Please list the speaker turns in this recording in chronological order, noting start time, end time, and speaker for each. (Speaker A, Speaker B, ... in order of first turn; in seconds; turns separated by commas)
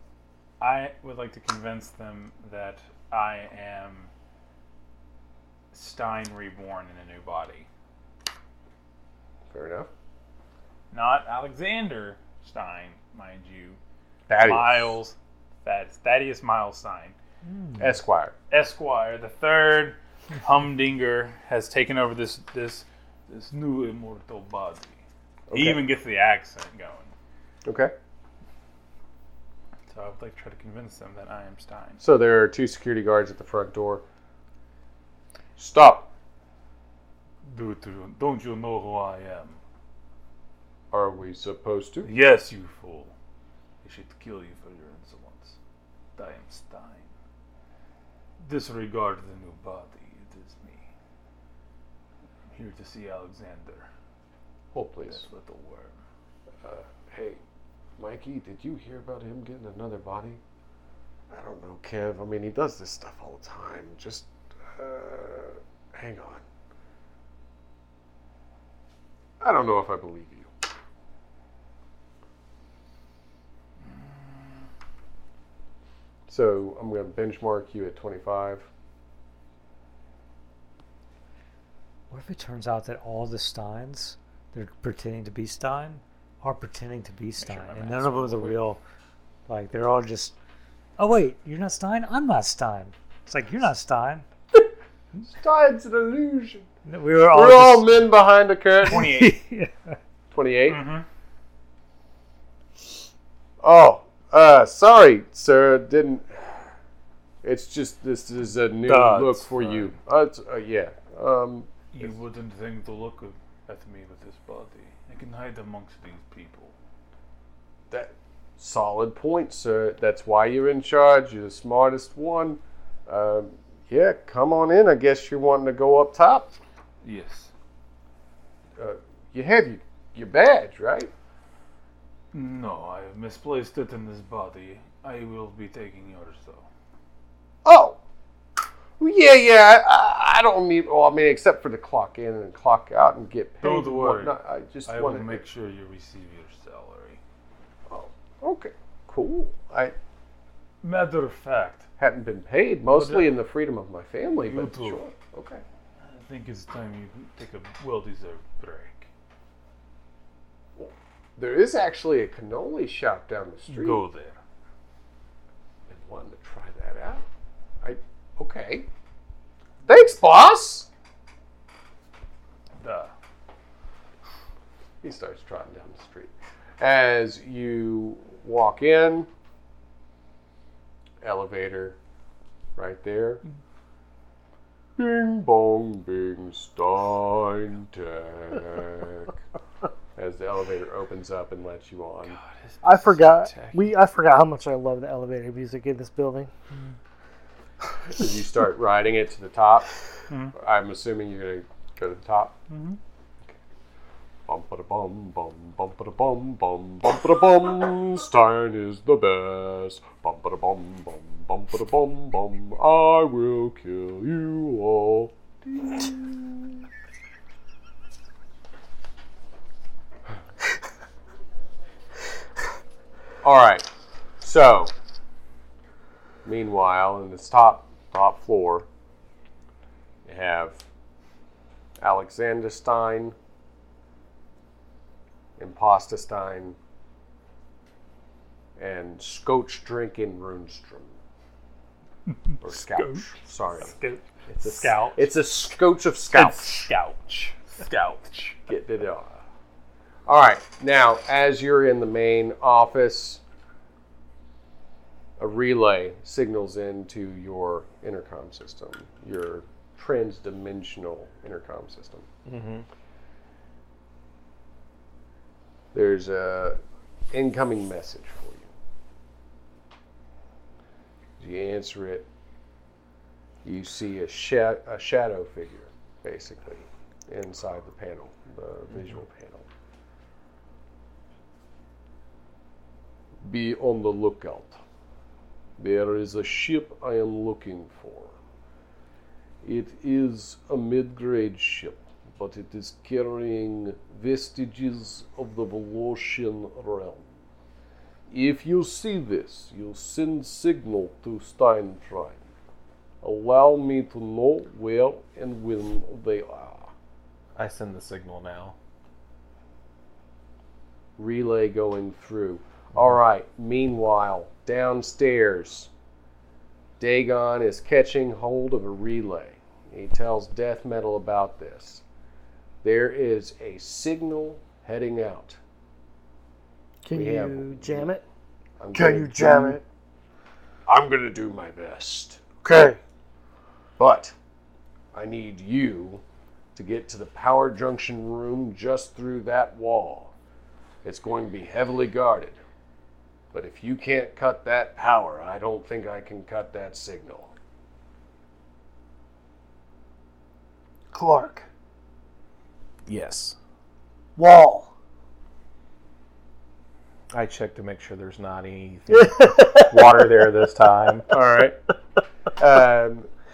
Speaker A: 0.6-4.1, Speaker A: 5.7-7.7, Speaker B: 9.5-9.9, Speaker A: 10.9-13.8, Speaker B: 14.3-15.0, Speaker A: 14.3-17.2, Speaker C: 17.5-17.9, Speaker B: 17.8-18.4, Speaker A: 18.5-27.1, Speaker B: 25.5-25.8, Speaker B: 27.6-27.9, Speaker A: 29.9-32.0, Speaker B: 32.0-34.0, Speaker B: 35.6-36.1, Speaker A: 37.4-39.6, Speaker B: 40.9-42.1, Speaker A: 42.0-43.1, Speaker A: 43.8-45.6, Speaker A: 46.2-47.1, Speaker A: 48.4-50.9, Speaker A: 52.5-53.9, Speaker B: 54.7-55.2, Speaker A: 55.1-56.0, Speaker B: 56.6-57.4, Speaker B: 58.0-60.4, Speaker B: 61.3-66.4, Speaker B: 69.4-70.5, Speaker A: 73.8-74.7, Speaker B: 76.3-78.7, Speaker C: 82.1-88.8, Speaker A: 87.4-88.6, Speaker C: 89.5-90.4, Speaker C: 91.0-94.3, Speaker B: 95.2-96.7, Speaker C: 96.8-98.1, Speaker B: 97.3-99.2, Speaker C: 98.8-99.9, Speaker A: 98.9-99.4, Speaker B: 100.3-101.0, Speaker A: 100.7-101.1, Speaker B: 103.6-106.7, Speaker B: 107.4-112.1, Speaker C: 108.9-109.9, Speaker A: 111.9-116.8, Speaker B: 117.9-126.5, Speaker A: 127.0-127.5, Speaker B: 128.8-131.1, Speaker A: 132.3-136.7, Speaker B: 137.7-138.0, Speaker B: 139.0-145.4, Speaker A: 143.6-147.2, Speaker B: 147.9-150.0, Speaker A: 150.8-151.9, Speaker B: 152.0-155.6, Speaker A: 152.9-153.3, Speaker A: 154.5-155.1, Speaker A: 156.0-159.1, Speaker B: 160.8-164.0, Speaker A: 163.7-164.4, Speaker B: 165.9-167.2, Speaker B: 167.8-168.9, Speaker B: 169.9-170.9, Speaker A: 172.8-173.1, Speaker B: 175.0-179.3, Speaker B: 181.2-182.0, Speaker B: 182.8-183.4, Speaker B: 185.0-189.4, Speaker B: 190.2-192.4, Speaker A: 192.3-192.8, Speaker D: 192.8-196.5, Speaker E: 192.9-193.3, Speaker B: 198.1-199.9, Speaker A: 200.3-200.6, Speaker B: 200.5-202.6, Speaker A: 202.7-203.0, Speaker B: 204.5-216.7, Speaker B: 223.4-223.9, Speaker B: 224.4-224.9, Speaker B: 226.4-228.9, Speaker B: 230.2-230.9, Speaker B: 232.0-233.3, Speaker B: 235.6-236.8, Speaker B: 238.8-241.2, Speaker A: 242.3-245.3, Speaker B: 242.6-244.0, Speaker B: 244.5-246.9, Speaker A: 246.3-248.6, Speaker B: 248.7-249.4, Speaker B: 250.3-253.4, Speaker B: 255.4-262.3, Speaker E: 262.5-262.9, Speaker B: 265.9-266.8, Speaker B: 267.3-268.7, Speaker B: 271.4-272.3, Speaker B: 273.6-279.7, Speaker B: 283.4-284.8, Speaker B: 285.8-288.4, Speaker B: 289.6-297.3, Speaker B: 298.3-302.4, Speaker B: 303.2-306.9, Speaker E: 307.6-308.8, Speaker B: 311.2-315.9, Speaker B: 317.0-322.0, Speaker B: 322.8-325.6, Speaker D: 327.0-328.2, Speaker B: 327.1-328.1, Speaker B: 328.8-329.8, Speaker D: 328.9-329.8, Speaker B: 330.9-332.4, Speaker D: 332.6-333.0, Speaker B: 334.0-334.4, Speaker B: 335.1-336.2, Speaker B: 336.8-340.3, Speaker B: 341.0-342.6, Speaker B: 343.5-347.5, Speaker D: 351.1-351.7, Speaker E: 353.1-353.6, Speaker D: 354.4-354.9, Speaker E: 357.3-361.3, Speaker D: 359.1-359.9, Speaker B: 361.3-361.8, Speaker B: 362.6-363.3